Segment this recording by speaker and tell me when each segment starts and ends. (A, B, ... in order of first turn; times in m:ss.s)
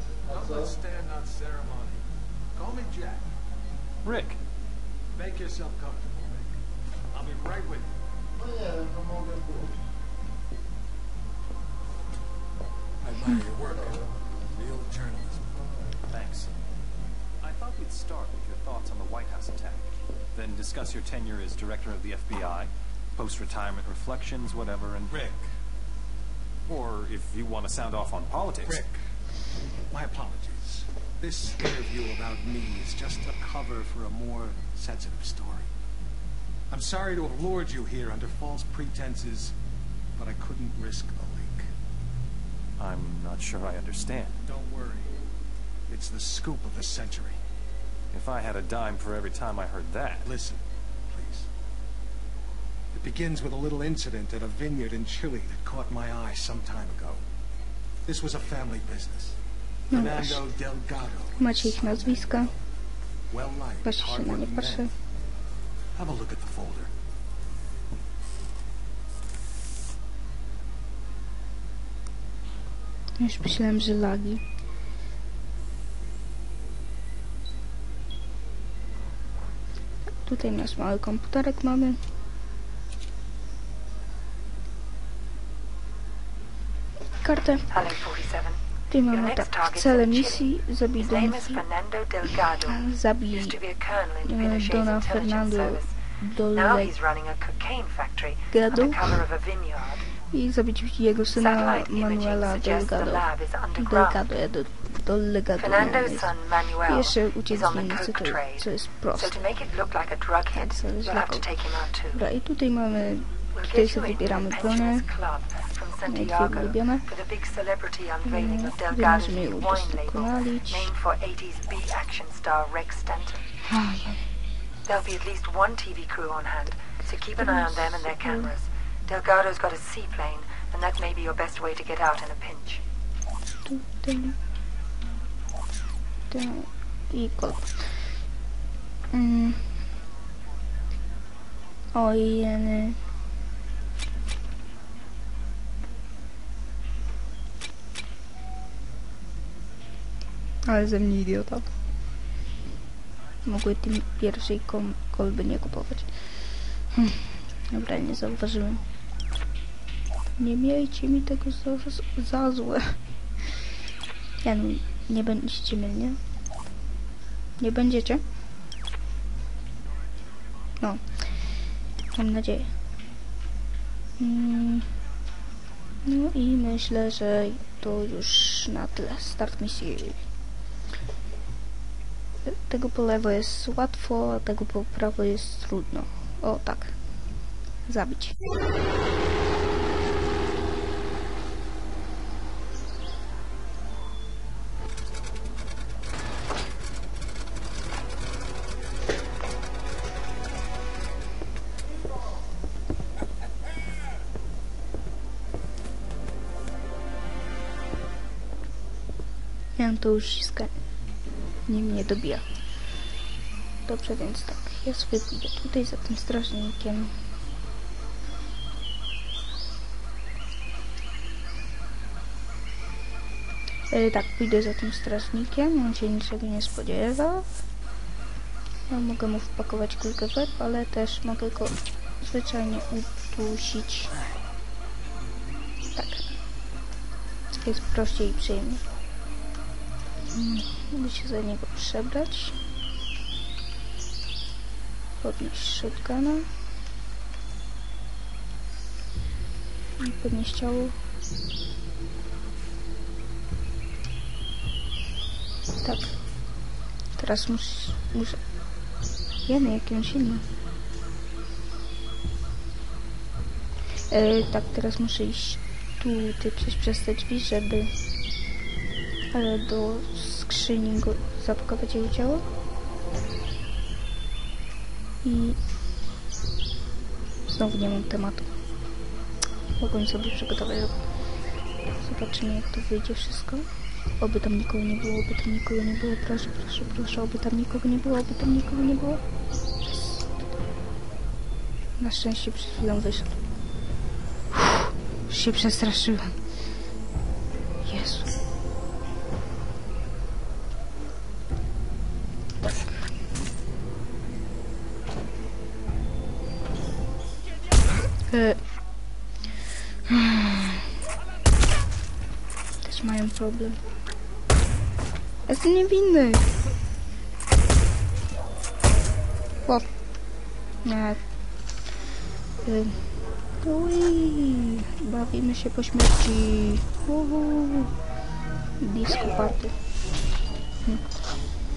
0:00.3-0:02.0 A
0:02.6-0:03.3 A
0:04.0-0:04.4 B
0:05.2-0:06.6 A
0:07.1-0:07.9 A
0:13.0-0:15.6 A
0:16.1-0:16.5 B
0:17.4-0:25.1 B
0:25.1-0:25.5 A
0:26.7-0:28.6 B
0:28.6-0:29.0 A
0:29.9-0:35.7 A
0:36.7-0:39.5 A
0:40.2-0:41.7 A
0:42.8-0:44.4 B
0:44.5-0:45.2 A
0:45.9-0:47.4 A
0:48.1-0:50.2 B
0:50.3-0:51.5 A
0:52.9-0:57.2 A
0:58.1-0:59.4 A
0:59.9-1:00.5 C
0:59.9-1:02.5 A
1:01.4-1:02.5 C
1:03.3-1:04.9 A
1:03.8-1:04.9 C
1:06.0-1:06.9 A
1:13.2-1:14.4 C
1:20.2-1:22.0 C
1:27.2-1:27.8 C
1:27.7-1:35.9 D
1:28.9-1:31.6 C
1:32.6-1:33.6 C
1:34.2-1:36.9 C
1:36.5-1:40.0 D
1:38.5-1:39.2 C
1:40.3-1:49.4 C
1:41.3-1:44.2 D
1:45.6-1:52.2 D
1:50.5-1:51.5 C
1:52.1-1:55.1 C
1:53.5-2:03.5 D
1:56.1-1:57.1 C
1:58.2-2:00.9 C
2:03.7-2:04.2 C
2:04.8-2:12.8 D
2:07.4-2:08.5 C
2:13.6-2:14.4 C
2:16.3-2:18.0 C
2:19.1-2:19.7 C
2:21.9-2:23.0 C
2:30.7-2:31.7 C
2:33.4-2:36.1 C
2:36.9-2:38.8 C
2:40.4-2:43.0 C
2:44.4-2:46.2 C
2:47.6-2:48.2 C
2:52.1-2:52.7 C
2:54.2-2:54.9 C
2:56.0-3:00.2 C
3:02.4-3:07.0 C
3:07.9-3:08.4 C
3:29.8-3:30.8 C
3:31.7-3:32.4 C
3:33.8-3:37.1 C
3:43.9-3:47.5 C
3:48.9-3:54.2 C
3:56.0-3:56.3 C
3:57.5-3:58.8 C
4:00.3-4:02.6 C
4:05.2-4:06.5 C
4:10.0-4:11.0 C
4:15.8-4:16.2 C
4:17.2-4:18.4 C
4:19.4-4:20.4 C
4:24.1-4:27.9 C
4:29.3-4:32.4 C
4:35.2-4:35.6 C
4:37.5-4:38.5 C
4:39.8-4:41.0 C
4:42.0-4:43.7 C
4:44.2-4:49.2 C
4:49.8-4:50.5 C
4:52.0-4:53.4 C
4:54.5-4:56.4 C
4:57.8-4:58.3 C
5:08.3-5:08.6 C
5:10.1-5:10.8 C
5:12.8-5:13.8 C
5:15.5-5:16.5 C
5:20.8-5:21.2 C
5:22.6-5:27.9 C
5:28.8-5:29.7 C